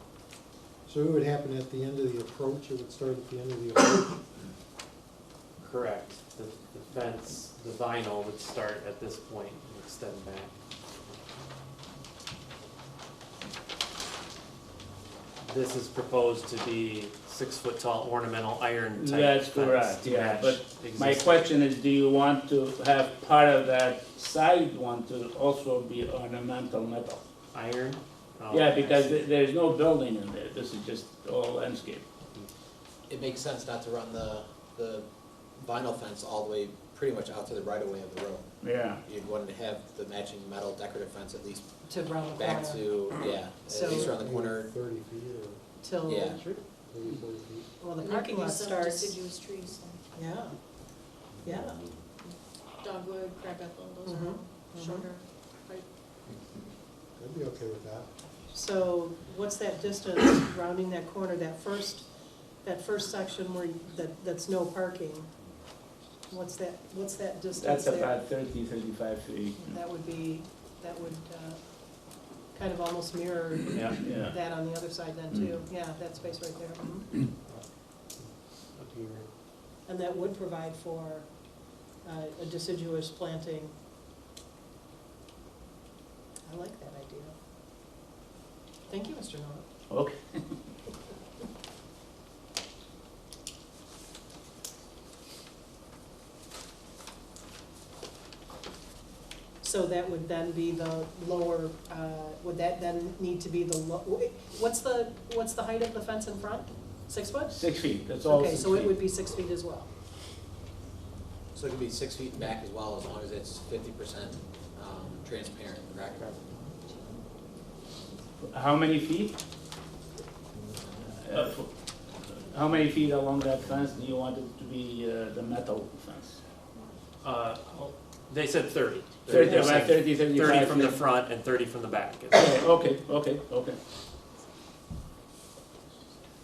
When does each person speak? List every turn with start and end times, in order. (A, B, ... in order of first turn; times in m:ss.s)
0:00.8-0:04.2 A
0:05.6-0:10.5 B
0:15.4-0:21.5 B
0:18.9-0:27.2 C
0:27.5-0:29.2 B
0:28.5-0:32.0 C
0:33.1-0:35.1 D
0:35.6-0:38.5 D
0:38.6-0:39.0 C
0:39.0-0:41.6 D
0:41.9-0:44.1 E
0:42.3-0:44.7 D
0:43.8-0:45.6 A
0:45.8-0:46.5 E
0:46.1-0:46.4 D
0:46.3-0:47.7 A
0:47.8-0:49.2 E
0:48.0-0:50.3 F
0:50.1-0:50.6 E
0:51.4-0:51.8 E
0:52.2-0:55.8 F
0:54.0-0:55.1 E
0:57.2-0:58.1 A
0:58.5-1:02.1 E
1:02.6-1:05.3 E
1:06.3-1:08.2 E
1:07.5-1:09.8 C
1:09.6-1:17.2 E
1:13.7-1:14.0 B
1:14.0-1:14.4 C
1:18.2-1:19.3 B
1:19.8-1:21.3 E
1:22.0-1:23.7 E
1:26.4-1:27.3 E
1:28.9-1:29.6 E
1:29.9-1:30.5 C
1:39.6-1:47.6 E
1:47.5-1:49.0 C
1:48.2-1:49.9 E
1:51.5-1:56.3 D
1:58.4-1:59.4 C
2:01.2-2:01.7 C
2:02.4-2:06.4 C
2:07.2-2:12.6 B
2:09.3-2:11.0 C
2:12.3-2:13.8 C